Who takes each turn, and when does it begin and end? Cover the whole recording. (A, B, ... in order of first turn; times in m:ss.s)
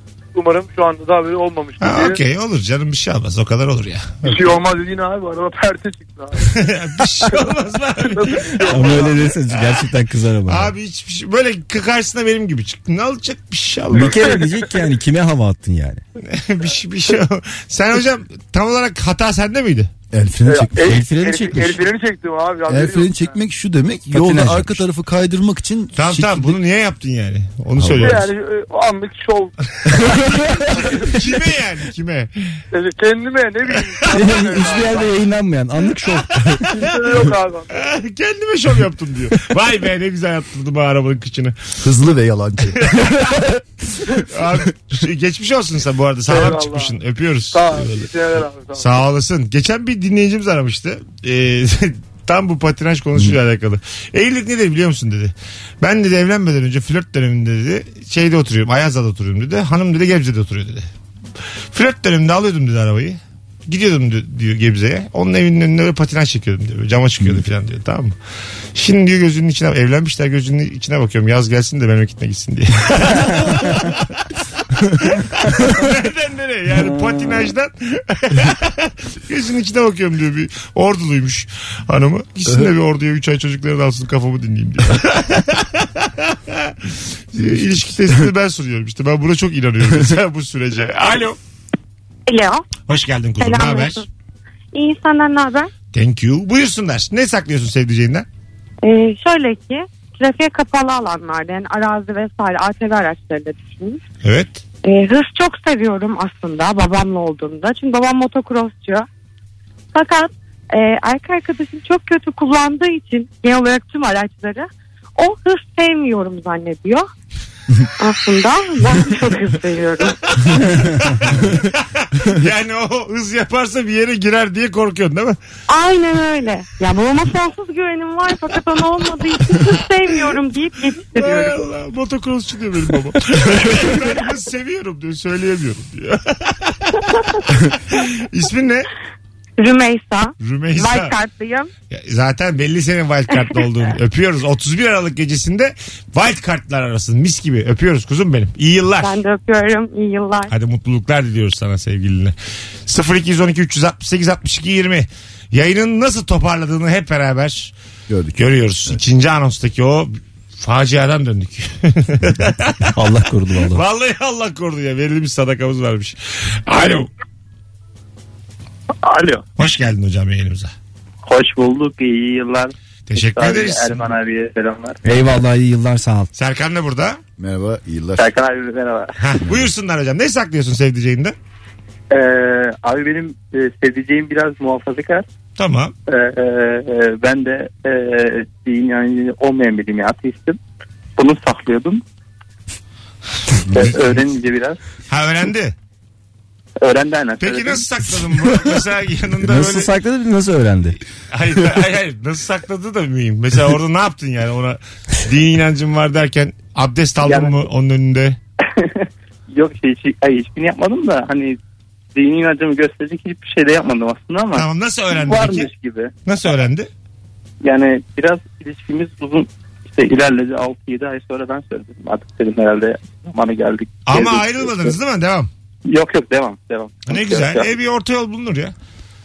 0:00.3-0:02.2 A
0:01.8-0:04.6 B
0:04.2-0:06.5 A
0:06.5-0:09.0 B
0:07.0-0:09.1 A
0:08.6-0:10.7 C
0:09.6-0:09.8 B
0:10.5-0:14.4 B
0:13.9-0:16.0 C
0:16.2-0:19.9 B
0:20.1-0:21.0 D
0:20.4-0:23.4 A
0:20.8-0:21.8 C
0:22.7-0:26.6 D
0:24.1-0:24.8 C
0:26.0-0:28.3 B
0:27.8-0:28.2 C
0:28.0-0:29.5 A
0:30.7-0:31.2 A
0:31.0-0:32.3 B
0:32.7-0:35.1 A
0:34.1-0:36.6 C
0:36.7-0:37.9 A
0:37.7-0:41.7 B
0:41.8-0:42.9 D
0:42.8-0:43.2 B
0:44.3-0:48.1 B
0:46.2-0:47.0 A
0:47.5-0:49.0 A
0:48.7-1:00.8 B
1:01.7-1:08.1 B
1:08.7-1:14.2 B
1:15.0-1:31.4 B
1:27.4-1:27.6 D
1:32.3-1:32.7 E
1:32.9-1:34.0 B
1:33.4-1:34.0 E
1:34.7-1:35.7 E
1:35.9-1:38.2 B
1:38.8-1:44.0 E
1:44.2-1:44.6 B
1:44.8-1:49.0 E
1:49.9-1:57.1 E
1:58.0-2:00.3 E
2:01.0-2:05.4 B
2:05.7-2:11.6 E
2:11.1-2:18.9 B
2:19.6-2:21.7 E
2:20.4-2:21.1 B
2:21.9-2:29.2 B
2:29.0-2:30.5 E
2:30.5-2:32.3 B
2:32.9-2:37.7 B
2:38.1-2:39.0 D
2:38.4-2:42.9 B
2:43.0-2:43.8 C
2:43.7-2:47.1 B
2:49.0-2:49.4 F
2:49.6-2:50.7 B
2:51.2-2:55.0 F
2:53.1-2:54.1 B
2:55.0-2:56.3 C
2:56.3-2:57.2 B
2:57.4-2:58.3 D
2:58.2-2:59.1 F
2:59.2-3:01.3 B
2:59.4-2:59.7 D
3:02.1-3:05.2 F
3:05.6-3:05.9 B
3:06.1-3:10.6 F
3:11.2-3:12.0 F
3:13.7-3:14.8 F
3:13.8-3:14.1 B
3:15.1-3:15.7 B
3:16.8-3:17.8 F
3:17.4-3:19.9 B
3:19.4-3:21.0 C
3:21.3-3:28.4 B
3:27.2-3:27.6 F
3:28.8-3:31.6 F
3:32.1-3:36.1 F
3:34.5-3:35.7 B
3:36.2-3:36.9 B
3:37.6-3:45.0 F
3:44.0-3:45.5 B
3:45.8-3:47.7 F
3:47.1-3:48.7 B